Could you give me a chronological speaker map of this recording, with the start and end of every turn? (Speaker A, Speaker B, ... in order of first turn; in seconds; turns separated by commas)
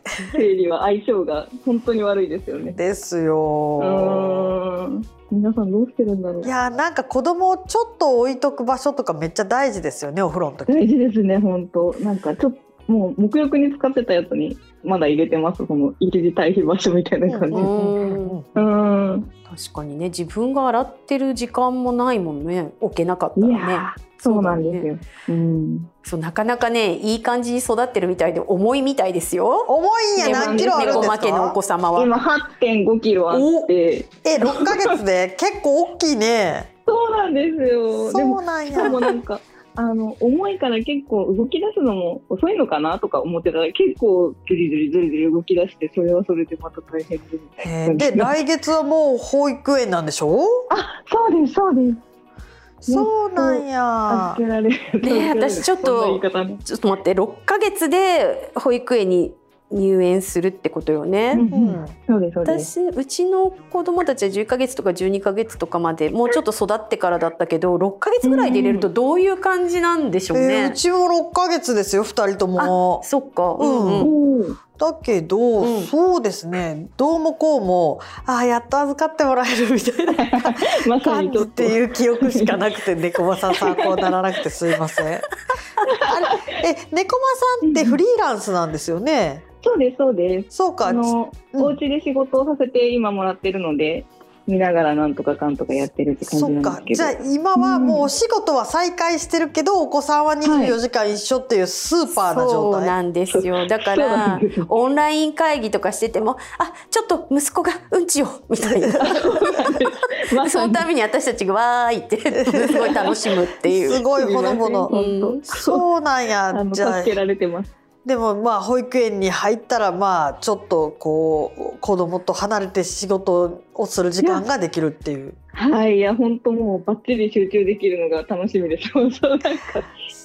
Speaker A: 0.3-2.8, Speaker B: 2.7-4.5, Speaker A: 3.8-6.5, Speaker B: 6.4-10.8, Speaker A: 10.7-17.7, Speaker B: 17.3-18.7, Speaker C: 17.5-18.4, Speaker A: 18.5-19.3, Speaker C: 19.5-24.9, Speaker A: 23.4-25.9, Speaker C: 26.0-32.1, Speaker B: 29.7-31.6, Speaker A: 30.2-31.1, Speaker A: 31.9-34.9, Speaker B: 33.3-33.7, Speaker B: 34.2-36.7, Speaker A: 36.9-48.3, Speaker B: 38.1-39.0, Speaker B: 47.6-50.7, Speaker A: 50.7-52.0, Speaker B: 52.8-54.4, Speaker A: 52.9-56.6, Speaker C: 55.0-61.5, Speaker A: 61.3-62.7, Speaker B: 61.5-61.9, Speaker C: 62.4-70.8, Speaker A: 68.2-68.9, Speaker B: 70.3-73.0, Speaker C: 72.6-74.1, Speaker B: 73.6-74.1, Speaker A: 74.0-74.6, Speaker B: 74.8-85.3, Speaker C: 75.6-75.9, Speaker A: 80.1-82.5, Speaker A: 83.5-84.1, Speaker A: 85.8-86.4, Speaker B: 86.0-89.4, Speaker A: 87.6-88.0, Speaker A: 89.6-98.1, Speaker B: 90.5-91.8, Speaker B: 96.2-102.9, Speaker A: 100.4-100.8, Speaker C: 102.1-109.8, Speaker A: 103.3-104.7, Speaker B: 108.6-109.1, Speaker A: 109.0-110.9, Speaker C: 110.4-114.0, Speaker B: 112.3-113.1, Speaker A: 112.7-115.8, Speaker B: 113.8-114.9, Speaker C: 114.9-115.4, Speaker B: 115.5-117.2, Speaker A: 116.5-117.7, Speaker B: 118.0-125.4, Speaker A: 125.5-129.9